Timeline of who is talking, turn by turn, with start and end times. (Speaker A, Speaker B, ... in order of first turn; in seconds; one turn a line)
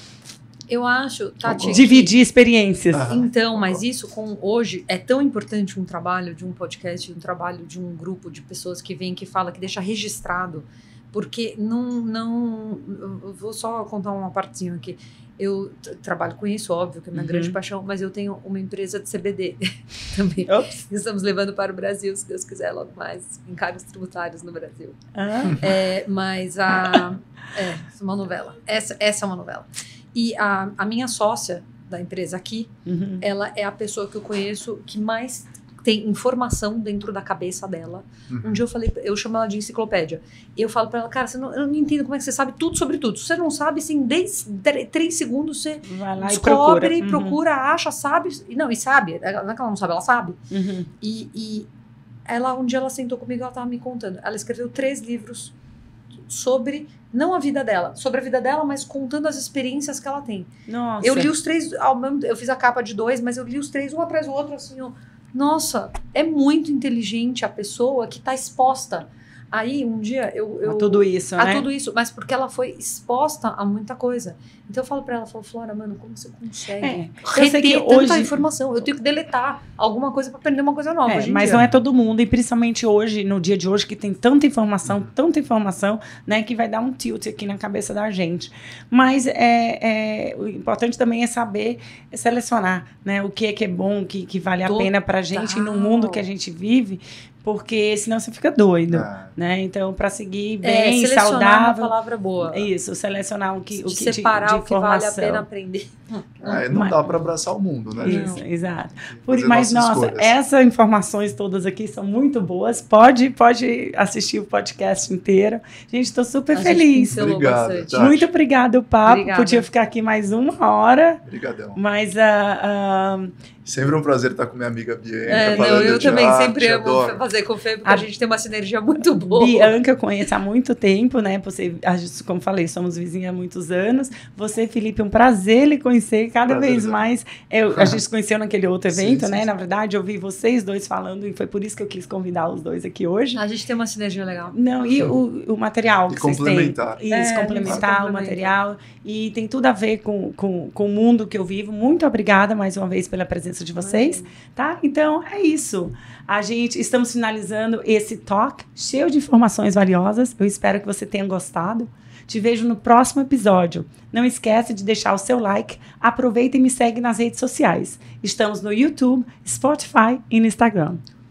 Speaker A: 0.7-2.1
Speaker B: 1.4-1.8
Speaker C: 1.7-3.1
Speaker B: 2.9-3.8
Speaker A: 3.0-25.0
Speaker C: 17.1-17.6
Speaker C: 20.4-20.8
Speaker C: 25.1-25.7
Speaker A: 25.5-50.4
Speaker C: 32.9-33.2
Speaker B: 38.3-38.6
Speaker C: 45.9-47.4
Speaker C: 50.5-50.9
Speaker A: 51.0-51.7
Speaker A: 52.3-55.5
Speaker A: 56.3-60.5
Speaker C: 60.7-61.3
Speaker A: 61.0-81.6
Speaker C: 70.6-71.7
Speaker C: 76.8-78.4
Speaker C: 81.1-101.9
Speaker B: 81.5-81.7
Speaker B: 84.8-85.1
Speaker A: 94.6-96.2
Speaker B: 98.9-99.3
Speaker A: 100.6-102.7
Speaker C: 102.5-105.4
Speaker A: 103.7-106.7
Speaker B: 106.4-110.3
Speaker C: 106.7-107.3
Speaker C: 108.0-117.2
Speaker A: 108.0-108.4
Speaker A: 116.5-117.9
Speaker B: 117.1-118.3
Speaker C: 117.9-121.2
Speaker A: 119.0-119.7
Speaker B: 121.2-121.8
Speaker C: 121.7-123.3
Speaker B: 123.6-127.2
Speaker A: 125.3-129.7
Speaker C: 125.5-126.0
Speaker C: 129.2-143.4
Speaker B: 136.4-137.0
Speaker B: 138.9-139.5
Speaker A: 143.3-144.5
Speaker C: 144.5-171.0
Speaker B: 146.1-147.0
Speaker A: 147.1-148.5
Speaker A: 153.8-154.3